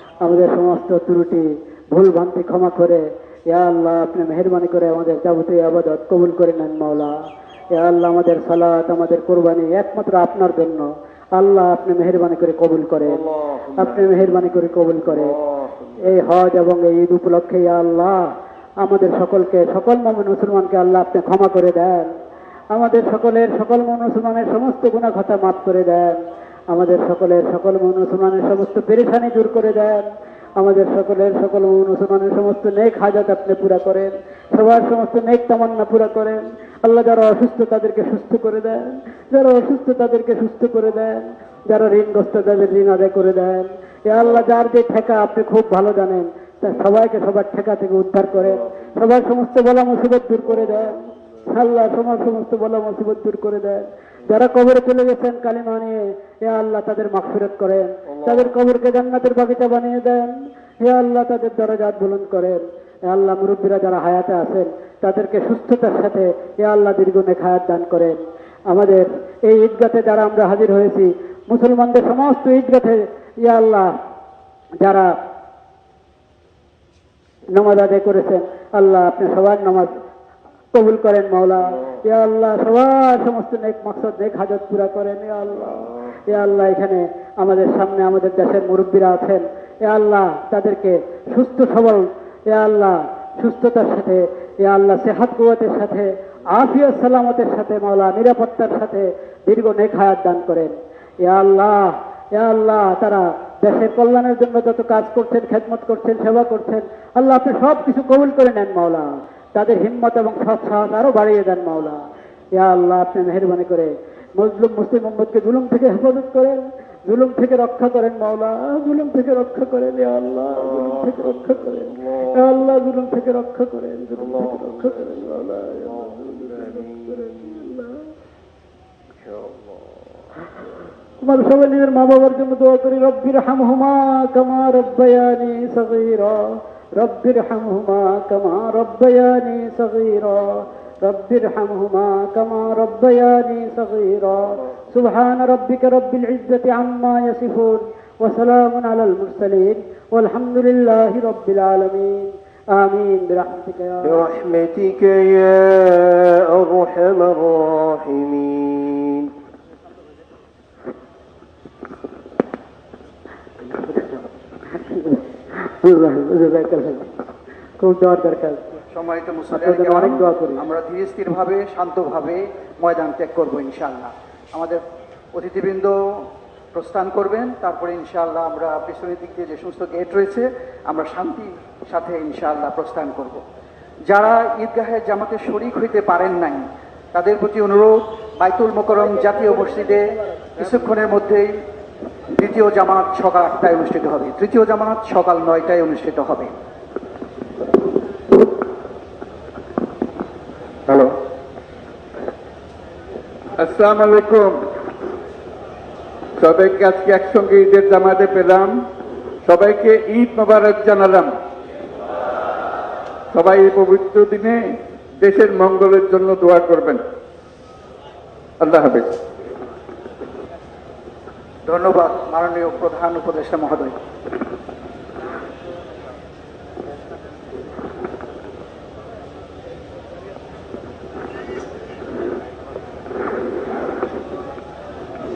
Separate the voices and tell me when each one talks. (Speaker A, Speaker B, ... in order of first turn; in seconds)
Speaker A: 0.2-7.1, 7.7-13.2, 13.8-15.3, 16.0-22.1, 22.7-26.2, 26.7-30.1, 30.6-51.0, 51.5-73.9, 74.8-75.2, 77.5-79.9, 80.7-112.0, 112.5-128.0, 131.2-136.4, 136.9-154.2, 163.7-167.1, 167.8-168.8, 169.5-170.6
Speaker B: 13.1-14.4, 15.0-16.1, 50.7-51.0, 58.1-58.5, 120.5-122.5, 124.2-127.8, 129.2-130.2, 154.0-159.3
Speaker C: 168.9-174.8, 175.3-183.4, 184.1-191.5, 192.3-196.5, 221.7-224.0
Speaker D: 203.6-204.6, 206.4-208.7, 209.4-211.3, 213.3-217.0, 218.6-219.2